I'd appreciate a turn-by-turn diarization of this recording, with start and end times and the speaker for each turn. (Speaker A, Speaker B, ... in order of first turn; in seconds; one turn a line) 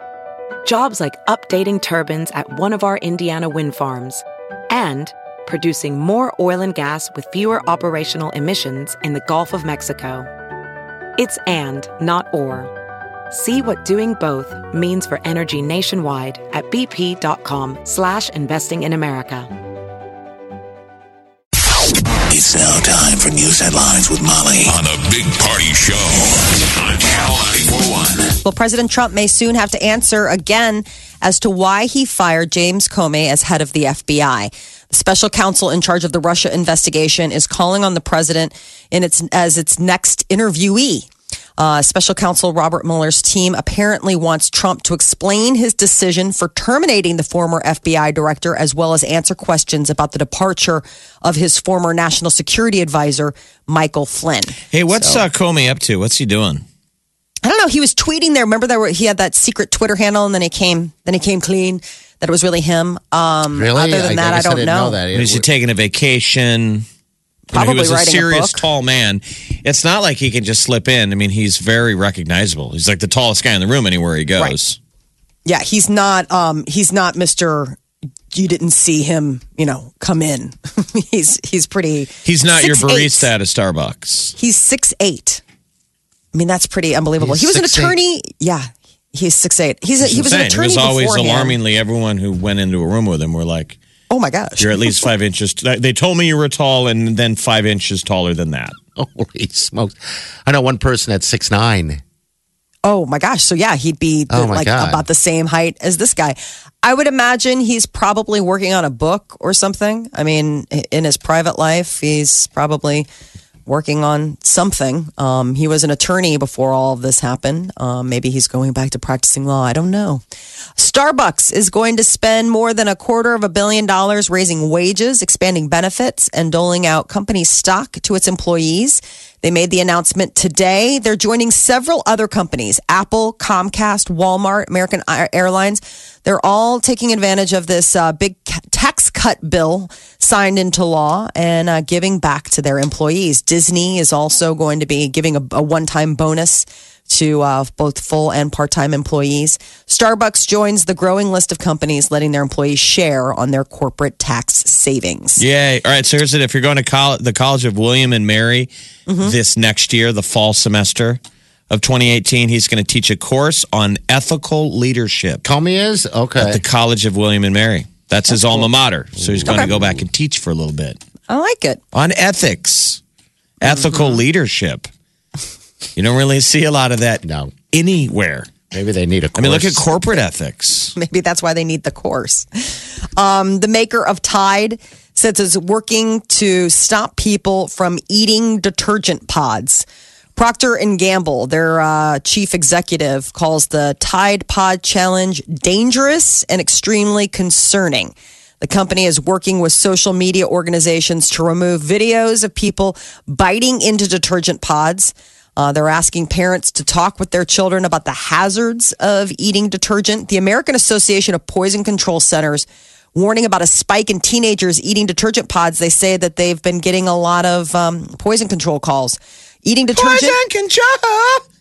Speaker A: 0.7-10.3
Speaker A: 11.2-12.7
Speaker A: 13.3-19.5
Speaker B: 22.3-28.4
Speaker C: 28.4-55.2
Speaker D: 54.7-56.6
Speaker C: 57.5-65.0
Speaker E: 63.5-65.5
Speaker D: 65.1-66.9
Speaker C: 67.5-68.7
Speaker D: 67.5-74.8
Speaker C: 75.5-77.8
Speaker C: 78.3-83.3
Speaker D: 82.2-84.3
Speaker C: 84.4-85.4
Speaker C: 86.3-91.6
Speaker E: 87.2-88.0
Speaker D: 90.0-93.8
Speaker C: 94.1-95.0
Speaker D: 94.6-98.8
Speaker E: 99.0-102.0
Speaker C: 102.8-113.1
Speaker E: 104.3-105.0
Speaker C: 113.7-120.2
Speaker C: 120.8-155.4
Speaker D: 155.4-158.7
Speaker C: 159.1-159.3
Speaker D: 159.2-165.4
Speaker E: 165.4-166.6
Speaker D: 166.4-171.0
Speaker E: 169.2-170.1
Speaker C: 171.3-171.8
Speaker D: 171.9-173.0
Speaker D: 173.6-174.9
Speaker C: 173.6-174.2
Speaker D: 176.0-178.5
Speaker E: 177.2-177.5
Speaker E: 178.7-179.9
Speaker D: 179.4-180.9
Speaker C: 180.9-189.8
Speaker C: 190.4-220.4
Speaker E: 220.0-221.4